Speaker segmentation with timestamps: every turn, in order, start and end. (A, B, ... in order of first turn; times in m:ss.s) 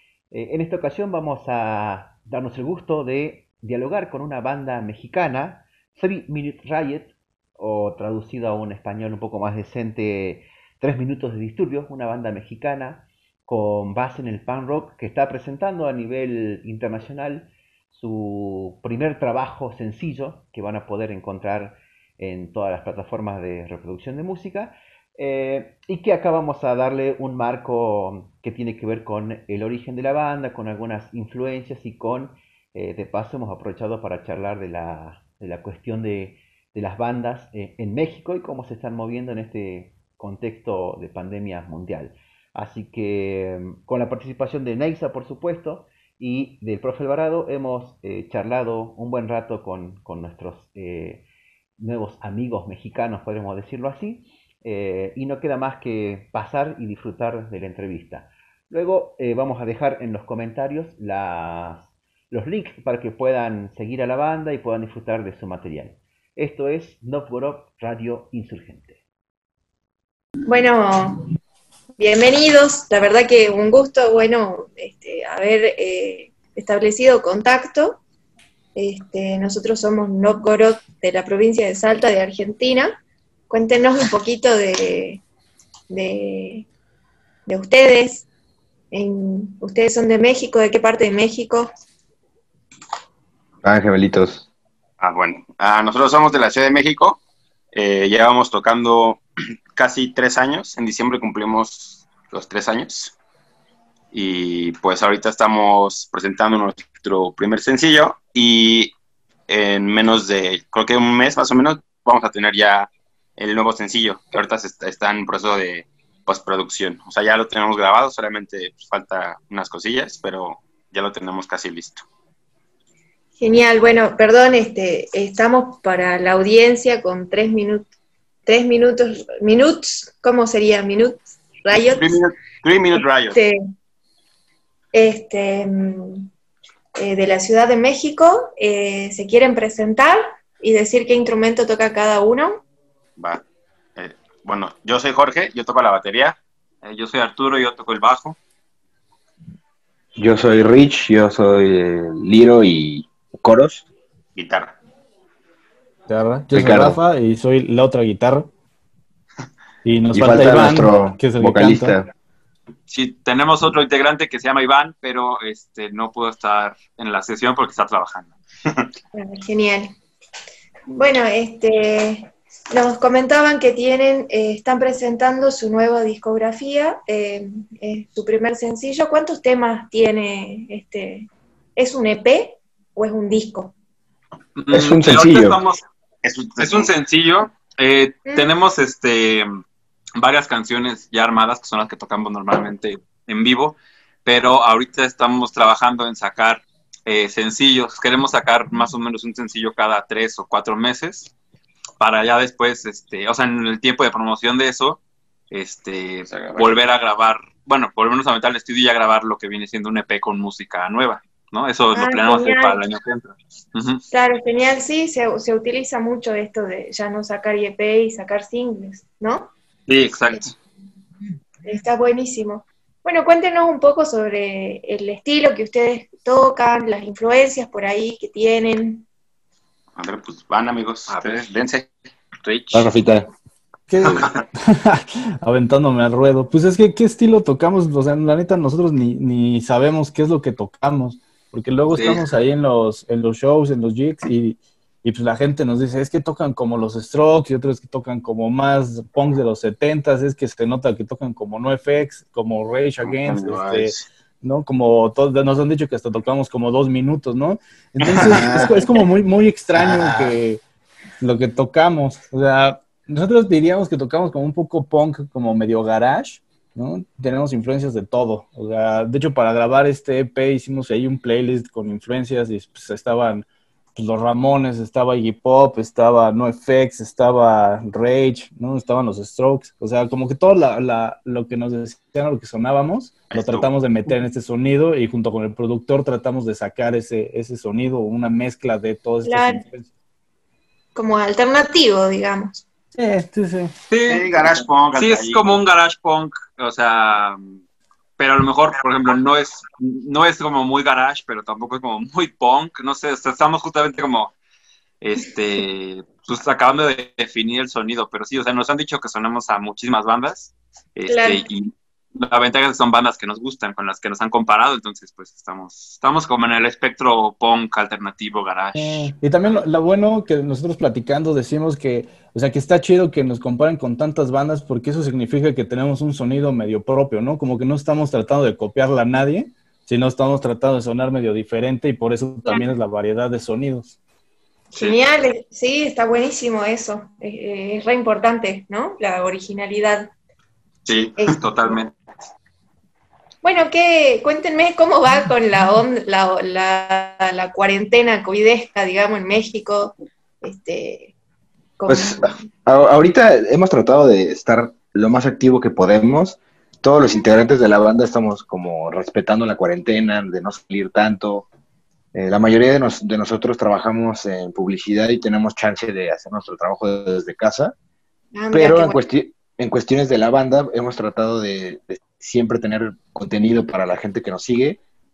0:00.3-0:51.2 A
0:51.8-1:09.0 A
1:10.4-1:11.2 B
1:12.0-1:18.0 B
1:18.8-1:25.2 B
1:25.9-1:26.7 B
1:27.5-1:28.3 B
1:28.9-1:31.7 B
1:33.6-1:34.5 C
1:35.0-1:37.2 D
1:37.7-1:39.2 D
1:39.8-1:43.2 D
1:44.1-1:48.9 D
1:49.5-2:02.0 D
2:03.4-2:07.9 B
2:08.5-2:12.2 B
2:11.8-2:13.4 D
2:13.0-2:13.6 B
2:14.9-2:16.3 B
2:17.0-2:22.6 B
2:24.0-2:26.4 D
2:26.8-2:28.4 E
2:30.2-2:33.9 C
2:34.4-2:34.8 D
2:36.1-2:38.5 F
2:36.5-2:37.0 C
2:39.8-2:42.0 F
2:40.1-2:42.1 C
2:42.9-2:48.3 E
2:49.1-2:50.0 B
2:50.9-3:03.7 B
3:04.6-3:05.8 E
3:04.7-3:05.6 C
3:06.2-3:06.9 D
3:06.6-3:09.5 E
3:08.3-3:08.5 B
3:10.2-3:21.3 E
3:22.0-3:34.0 E
3:26.3-3:26.8 D
3:31.9-3:32.8 B
3:34.1-3:39.5 B
3:39.9-3:40.5 E
3:41.6-3:49.0 B
3:50.0-3:51.9 D
3:51.1-3:51.5 E
3:52.4-3:52.9 E
3:52.7-3:53.3 C
3:53.9-4:20.6 F
4:01.9-4:02.2 E
4:13.0-4:14.0 D
4:18.0-4:19.0 D
4:21.2-4:49.8 F
4:43.3-4:43.7 D
4:49.2-4:49.6 B
4:51.0-4:52.6 B
4:53.0-4:53.7 F
4:53.9-4:57.6 E
4:54.1-4:55.6 D
4:58.2-5:04.3 E
5:05.0-5:19.6 E
5:11.1-5:11.4 B
5:18.7-5:33.9 F
5:34.7-5:40.1 B
5:40.9-5:42.0 E
5:41.2-5:41.8 B
5:43.4-5:51.1 B
5:51.8-5:52.5 B
5:51.9-6:01.5 C
6:02.1-6:07.7 C
6:08.3-6:09.0 B
6:08.5-6:14.8 C